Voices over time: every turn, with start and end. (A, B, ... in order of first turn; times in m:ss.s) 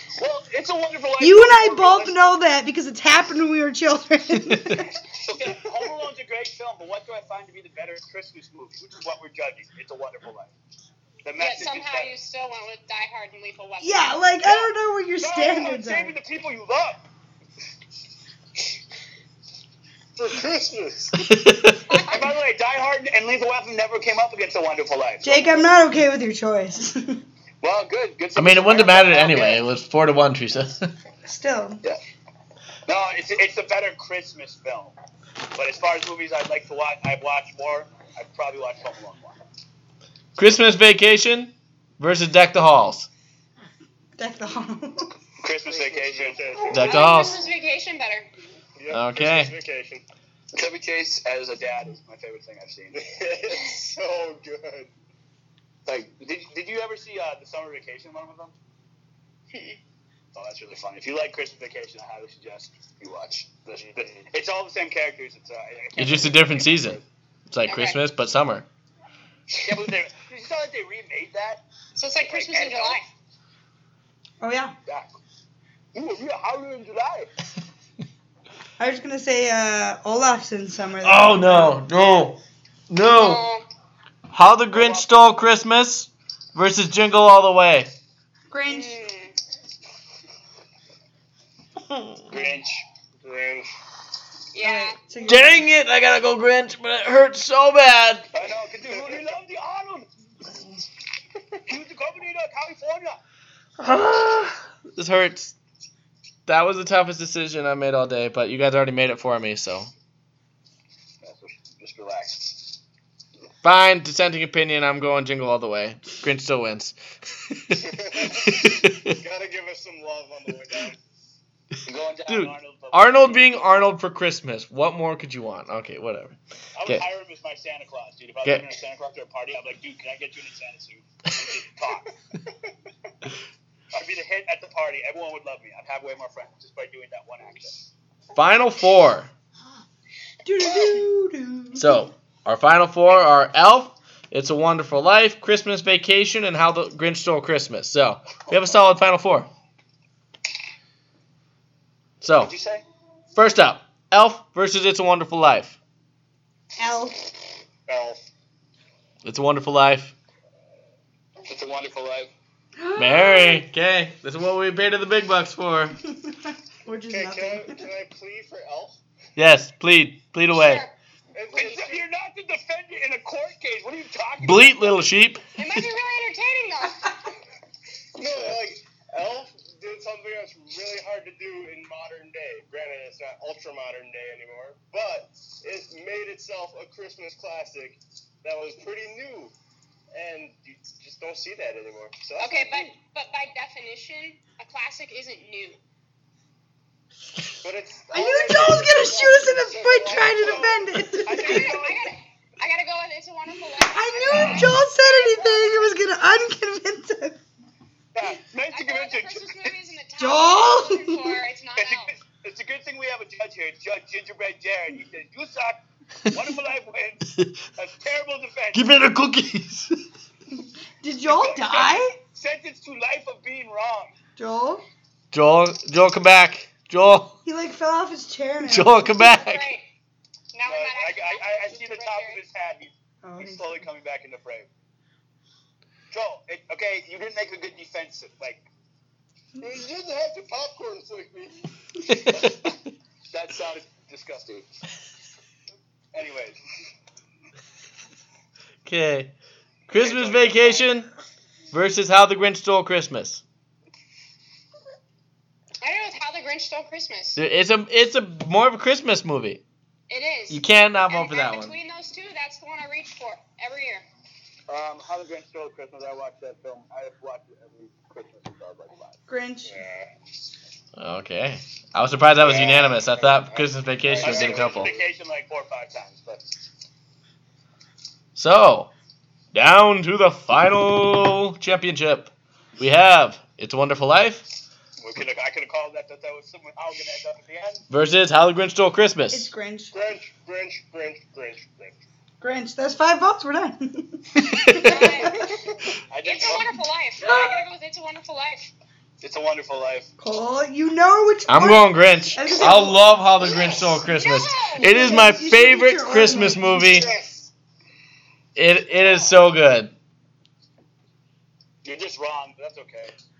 0:00.2-0:02.1 A
0:01.2-0:04.9 B
0:04.5-0:04.8 C
0:05.1-0:10.5 A
0:11.2-0:12.1 A
0:11.4-0:14.2 D
0:13.8-0:16.1 B
0:15.2-0:17.0 A
0:20.2-0:21.2 E
0:21.1-0:21.9 C
0:21.9-0:22.3 D
0:22.0-0:25.6 A
0:25.2-0:27.2 B
0:27.6-0:29.6 A
0:28.4-0:30.9 C
0:31.2-0:31.8 B
0:32.8-0:34.9 A
0:35.5-0:39.4 A
0:40.4-0:43.1 C
0:44.2-0:45.1 B
0:45.4-0:46.9 A
0:45.6-0:46.9 E
0:46.7-0:47.4 C
0:46.7-0:48.3 D
0:48.8-0:50.0 E
0:48.9-0:49.5 C
0:50.5-0:53.0 A
0:52.9-0:54.9 E
0:55.8-0:58.5 A
0:59.5-0:59.8 E
1:00.3-1:07.0 A
1:06.0-1:08.6 C
1:07.6-1:08.0 D
1:09.6-1:11.6 A
1:12.0-1:13.1 D
1:12.2-1:13.0 A
1:14.4-1:14.7 B
1:14.8-1:15.2 A
1:15.9-1:17.3 A
1:18.8-1:21.8 B
1:21.0-1:22.4 C
1:22.9-1:23.4 C
1:23.0-1:23.6 D
1:24.3-1:27.9 C
1:24.7-1:25.3 A
1:28.5-1:29.0 B
1:28.7-1:29.3 D
1:32.3-1:32.8 A
1:33.2-1:33.7 E
1:34.5-1:35.0 D
1:34.6-1:35.7 B
1:35.2-1:38.3 C
1:38.3-1:40.1 A
1:38.9-1:39.2 E
1:41.7-1:43.2 A
1:43.8-1:45.5 C
1:46.5-1:49.9 C
1:51.2-1:52.8 A
1:53.6-1:59.2 C
1:57.8-2:01.0 E
2:01.8-2:03.9 A
2:02.3-2:07.0 C
2:06.8-2:12.1 A
2:13.9-2:17.8 A
2:18.4-2:19.3 C
2:20.4-2:22.0 B
2:21.7-2:29.5 C
2:32.2-2:32.5 C
2:32.3-2:32.8 A
2:33.4-2:35.8 C
2:36.8-2:37.2 B
2:37.9-2:38.2 E
2:39.2-2:40.1 C
2:41.5-2:42.3 A
2:42.8-2:43.6 B
2:43.0-2:46.0 C
2:46.2-2:47.8 B
2:47.1-2:49.0 E
2:49.4-2:50.8 C
2:50.5-2:50.9 D
2:51.3-2:52.0 E
2:51.5-2:55.1 A
2:54.4-2:55.4 C
2:55.6-2:57.2 D
2:58.2-3:09.5 E
3:10.1-3:12.9 E
3:12.4-3:15.8 D
3:17.6-3:20.8 E
3:18.1-3:21.8 B
3:20.3-3:22.1 A
3:21.3-3:25.9 D
3:23.9-3:27.4 B
3:28.1-3:29.7 A
3:28.7-3:32.1 D
3:30.2-3:31.4 B
3:31.8-3:38.9 A
3:38.7-3:39.9 C
3:41.0-3:42.1 B
3:41.3-3:44.1 A
3:44.4-3:44.8 B
3:45.3-3:47.4 C
3:47.4-3:49.2 B
3:48.7-3:49.7 C
3:49.2-3:49.9 D
3:50.5-3:52.4 D
3:50.6-3:54.7 A
3:53.2-3:53.8 B
3:56.1-3:58.6 A
3:59.6-4:01.7 E
4:02.1-4:02.7 C
4:02.3-4:02.7 A
4:03.3-4:04.7 A
4:06.1-4:06.6 A
4:08.8-4:09.3 C
4:09.9-4:11.1 C
4:10.0-4:10.9 A
4:11.7-4:13.4 C
4:15.8-4:17.4 D
4:17.4-4:19.6 C
4:20.1-4:24.0 D
4:20.5-4:21.7 C
4:24.7-4:29.2 A
4:29.3-4:29.8 B
4:29.6-4:30.1 E
4:31.0-4:34.9 C
4:32.4-4:35.0 E
4:34.2-4:36.5 A
4:38.4-4:38.9 C
4:39.5-4:44.4 C
4:45.0-4:47.8 A
4:47.9-4:49.5 C
4:49.3-4:49.9 B
4:49.9-4:52.0 E
4:52.4-4:55.5 B
4:54.4-4:55.1 C
4:54.7-4:55.3 D
4:56.1-4:56.8 A
4:56.2-4:58.7 D
4:57.2-4:57.6 B
4:59.2-5:00.1 A
5:00.2-5:03.0 B
5:01.5-5:07.1 C
5:04.1-5:04.9 D
5:04.8-5:07.0 B
5:06.7-5:07.5 E
5:08.5-5:09.9 C
5:11.8-5:13.1 A